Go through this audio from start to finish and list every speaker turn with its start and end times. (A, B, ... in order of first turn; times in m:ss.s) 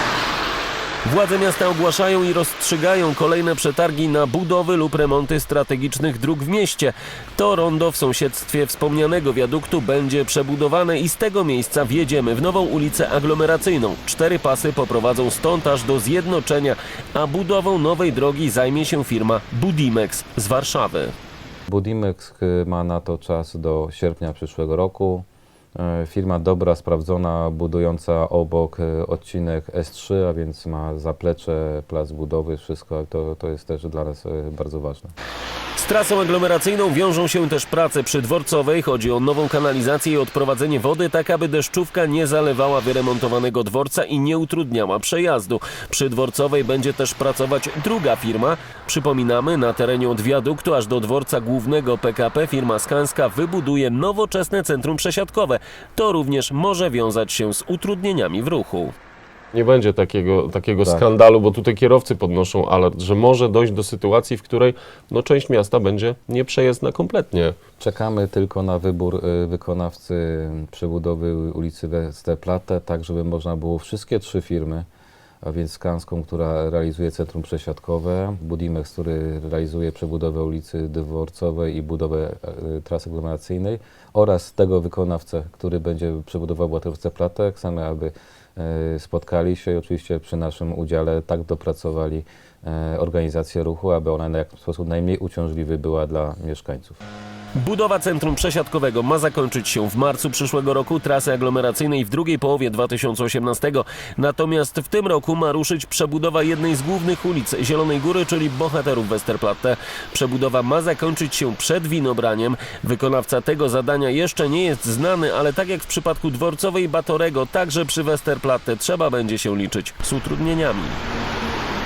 0:01.0-0:21.1 A
0:21.7-0:35.1 B
0:35.8-0:58.9 A
0:59.5-1:06.4 C
1:05.7-1:07.5 A
1:07.1-1:07.4 C
1:07.8-1:14.8 B
1:15.4-1:37.0 B
1:37.6-2:01.0 A